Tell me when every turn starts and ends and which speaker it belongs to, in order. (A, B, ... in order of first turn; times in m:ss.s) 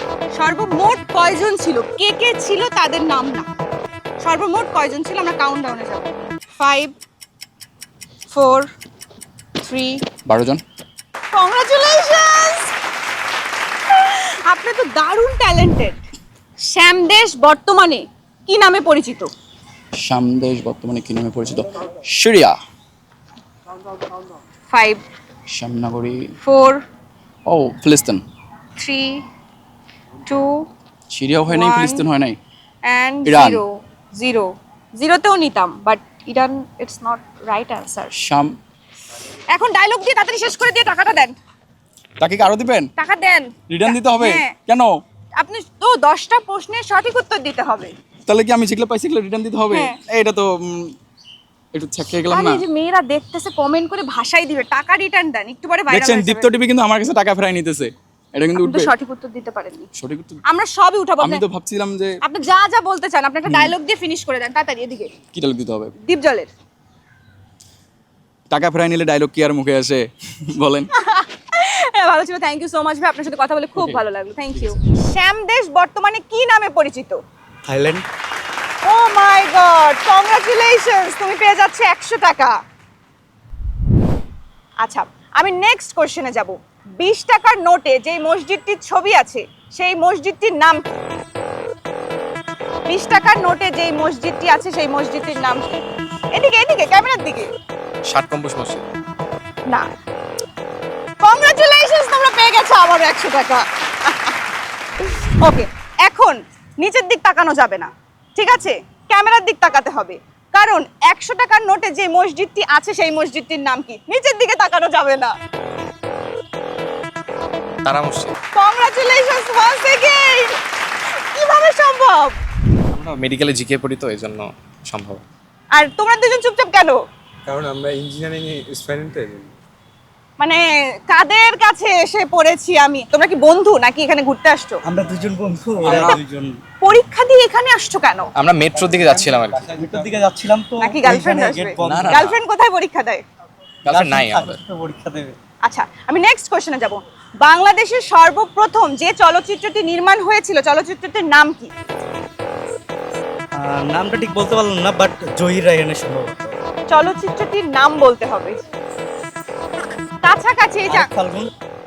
0:00.4-0:03.5 A
0:04.2-0:07.0 A
0:08.3-0:08.7 A
0:09.6-0:10.0 A
0:10.3-0:10.6 B
0:11.3-0:12.7 A
0:13.9-0:16.0 A
0:16.6-0:19.3 A
0:20.0-0:22.6 B
0:24.7-0:25.0 A
0:25.5-0:26.3 B
0:26.4-0:26.8 A
0:27.5-0:28.2 B
0:28.8-0:29.2 A
0:30.3-0:30.7 A
0:31.1-0:32.4 B
0:31.5-0:32.1 A
0:32.9-0:38.1 A
0:33.2-0:33.6 B
0:38.1-0:38.5 B
0:39.5-0:41.4 A
0:42.2-0:42.9 B
0:43.0-0:44.5 A
0:43.7-0:44.9 B
0:45.4-0:47.9 A
0:48.3-0:50.9 B
0:49.7-0:50.0 A
0:51.7-0:52.6 B
0:52.3-0:56.5 A
0:55.9-0:58.9 B
0:58.6-0:59.9 A
1:00.0-1:00.4 B
1:00.5-1:01.4 A
1:01.2-1:02.2 B
1:02.2-1:05.1 A
1:03.5-1:03.7 B
1:05.3-1:05.9 B
1:06.0-1:06.5 A
1:08.5-1:10.9 B
1:11.0-1:17.2 A
1:17.7-1:18.0 C
1:18.8-1:22.6 A
1:24.8-1:31.0 A
1:32.9-1:37.5 A
1:38.1-1:38.8 D
1:41.2-1:44.4 A
1:45.4-1:55.3 A
1:57.8-1:58.4 D
1:58.6-2:00.6 A
2:01.4-2:02.4 A
2:02.9-2:05.2 D
2:05.7-2:07.0 A
2:07.5-2:09.5 E
2:10.4-2:14.8 A
2:14.8-2:16.6 C
2:15.9-2:16.2 B
2:16.8-2:18.3 A
2:18.4-2:19.8 D
2:18.8-2:22.3 C
2:19.0-2:20.1 E
2:20.8-2:23.2 A
2:21.8-2:22.4 D
2:23.9-2:25.4 C
2:23.9-2:24.6 D
2:25.6-2:31.7 A
2:33.6-2:36.5 C
2:36.9-2:38.6 A
2:40.2-2:41.1 A
2:40.9-2:41.5 C